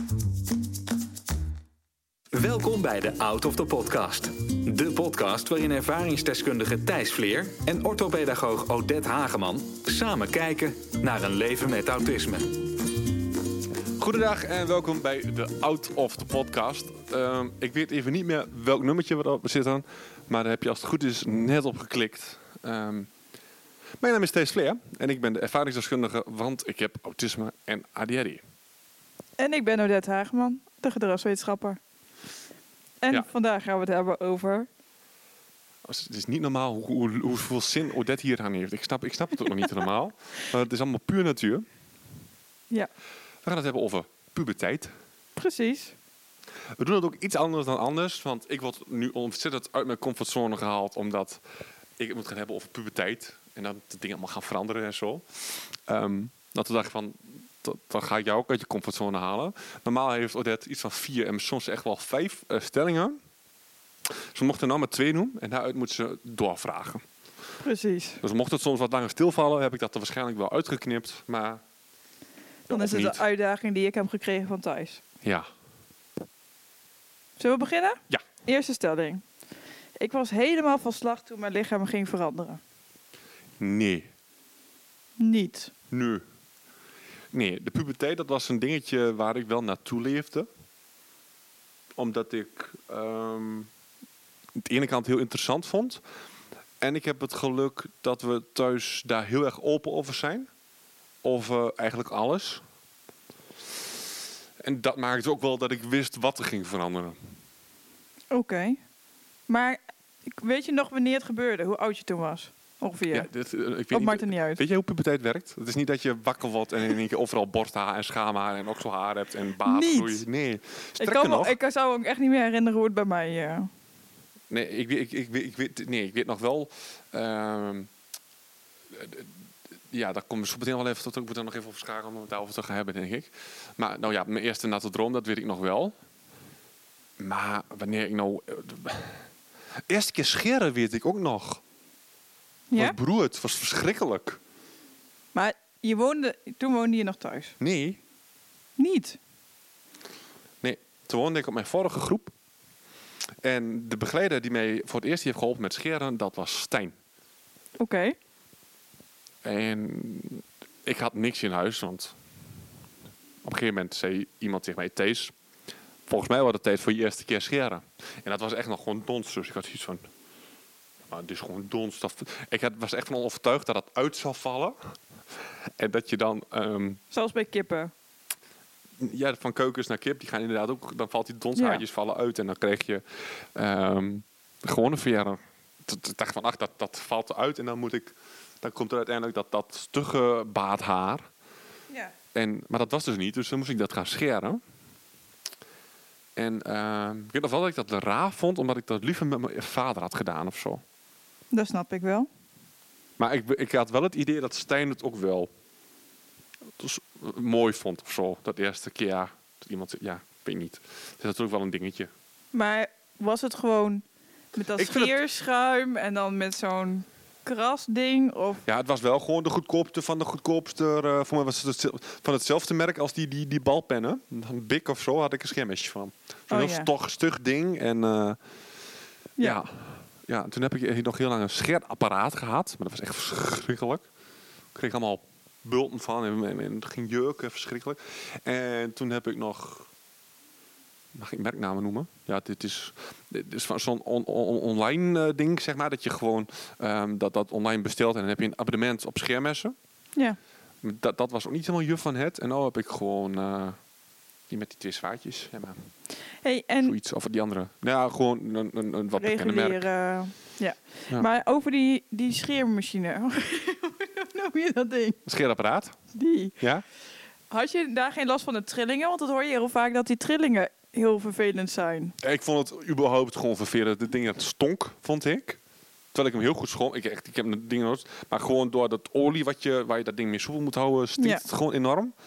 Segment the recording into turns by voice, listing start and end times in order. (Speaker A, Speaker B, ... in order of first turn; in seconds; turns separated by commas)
Speaker A: 2.3-12.6, Speaker B: 14.0-23.1, Speaker B: 24.0-28.4, Speaker C: 29.4-31.8, Speaker C: 33.0-34.7, Speaker B: 35.8-41.6, Speaker B: 43.4-44.9, Speaker C: 45.4-45.9, Speaker B: 46.8-51.4, Speaker B: 52.0-63.2, Speaker B: 64.3-67.0, Speaker C: 67.6-68.2, Speaker B: 68.2-71.6, Speaker B: 72.7-73.2, Speaker C: 72.7-75.0, Speaker C: 77.4-79.2, Speaker C: 80.0-82.6, Speaker B: 83.6-84.1, Speaker C: 85.2-85.7, Speaker B: 85.9-86.2, Speaker B: 87.3-90.5, Speaker B: 92.0-93.7, Speaker B: 94.6-96.0, Speaker B: 96.8-100.5, Speaker B: 101.2-102.6, Speaker B: 104.6-107.2, Speaker C: 108.3-108.8, Speaker C: 109.5-113.3, Speaker B: 113.1-121.5, Speaker C: 113.9-114.6, Speaker C: 119.6-120.2, Speaker C: 121.0-123.7, Speaker B: 124.5-127.9, Speaker B: 128.9-129.3, Speaker B: 129.9-135.9, Speaker B: 137.2-139.3, Speaker B: 139.9-141.6, Speaker C: 142.7-142.9, Speaker B: 142.7-144.4, Speaker C: 145.3-147.5, Speaker B: 147.6-148.0, Speaker C: 148.8-149.2, Speaker B: 150.6-152.3, Speaker B: 153.4-156.9, Speaker C: 157.8-158.2, Speaker B: 159.4-162.2, Speaker B: 163.4-165.3, Speaker B: 166.1-170.1, Speaker B: 171.1-174.8, Speaker B: 175.8-177.0, Speaker C: 177.1-177.9, Speaker B: 179.0-183.0, Speaker C: 181.6-181.8, Speaker B: 183.5-191.3, Speaker B: 192.3-194.6, Speaker B: 196.3-200.8, Speaker C: 201.5-202.3, Speaker B: 203.2-205.5, Speaker B: 206.8-212.1, Speaker C: 212.5-218.6, Speaker B: 214.7-215.2, Speaker B: 218.6-228.4, Speaker C: 226.5-226.9, Speaker B: 229.4-234.1, Speaker B: 234.7-239.9, Speaker B: 241.1-249.7, Speaker B: 250.8-253.8, Speaker B: 254.5-255.8, Speaker C: 256.4-256.9, Speaker B: 256.8-259.8, Speaker C: 259.2-265.2, Speaker B: 265.2-266.0, Speaker C: 266.1-266.6, Speaker B: 266.6-266.8, Speaker C: 267.5-272.1, Speaker B: 272.2-275.6, Speaker B: 276.1-282.1, Speaker C: 281.2-281.4